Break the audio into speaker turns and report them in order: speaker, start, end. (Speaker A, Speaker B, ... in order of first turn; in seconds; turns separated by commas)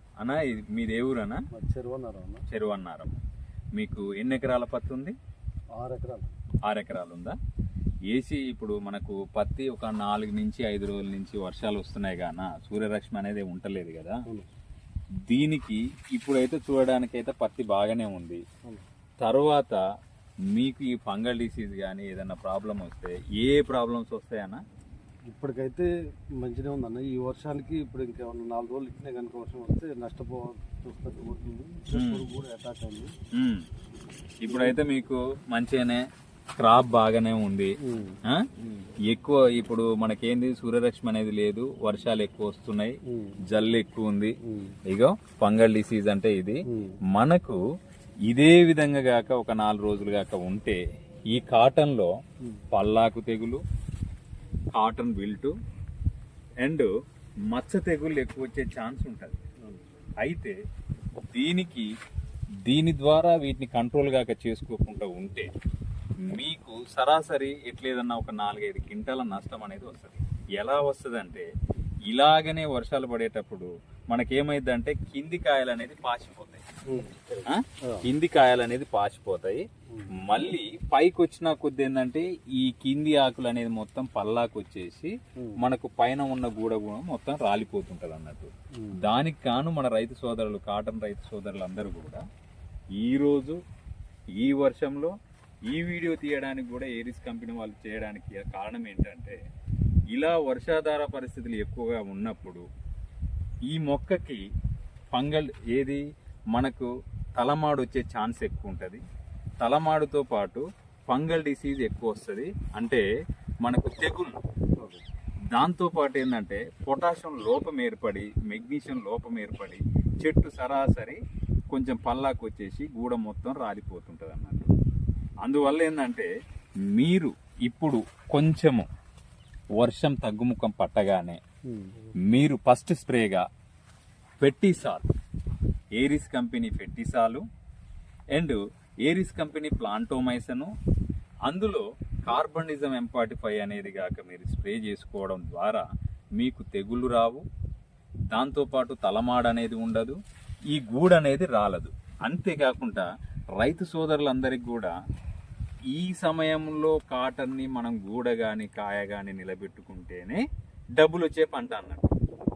Speaker A: 0.2-1.4, Speaker B: 1.5-2.4, Speaker A: 2.5-3.2, Speaker A: 3.7-5.1, Speaker B: 5.8-6.3, Speaker A: 6.7-7.3, Speaker A: 8.1-14.2, Speaker A: 15.2-18.4, Speaker A: 19.2-19.8, Speaker A: 20.5-24.6, Speaker B: 25.3-25.9, Speaker B: 26.4-33.1, Speaker A: 31.9-32.2, Speaker A: 33.3-33.6, Speaker A: 34.4-36.0, Speaker B: 34.5-34.8, Speaker A: 36.6-38.5, Speaker B: 37.8-38.9, Speaker A: 39.1-43.0, Speaker B: 43.1-43.4, Speaker A: 43.5-44.3, Speaker B: 44.5-44.8, Speaker A: 44.9-46.6, Speaker B: 46.7-46.9, Speaker A: 47.1-47.6, Speaker A: 48.3-50.8, Speaker A: 51.3-52.1, Speaker A: 52.7-53.6, Speaker A: 54.7-55.5, Speaker A: 56.6-56.9, Speaker A: 57.5-59.3, Speaker A: 60.2-60.5, Speaker A: 61.3-61.9, Speaker A: 62.6-65.5, Speaker A: 66.2-71.5, Speaker A: 72.1-76.6, Speaker B: 76.9-78.1, Speaker A: 77.4-79.6, Speaker A: 80.2-92.2, Speaker B: 88.8-89.0, Speaker A: 93.0-93.6, Speaker A: 94.4-95.1, Speaker A: 95.7-99.4, Speaker A: 100.1-102.6, Speaker A: 103.7-104.4, Speaker A: 105.1-106.0, Speaker A: 106.5-109.0, Speaker A: 109.6-113.0, Speaker A: 113.6-114.4, Speaker A: 115.5-121.2, Speaker A: 121.7-124.7, Speaker A: 125.4-126.3, Speaker A: 126.9-128.9, Speaker A: 129.8-131.4, Speaker B: 131.7-131.9, Speaker A: 132.2-133.4, Speaker A: 134.4-135.1, Speaker A: 136.0-137.4, Speaker A: 138.3-140.7, Speaker A: 141.5-145.8, Speaker A: 146.4-147.4, Speaker A: 148.3-150.2, Speaker A: 150.7-154.9, Speaker A: 155.9-160.4, Speaker A: 161.0-162.1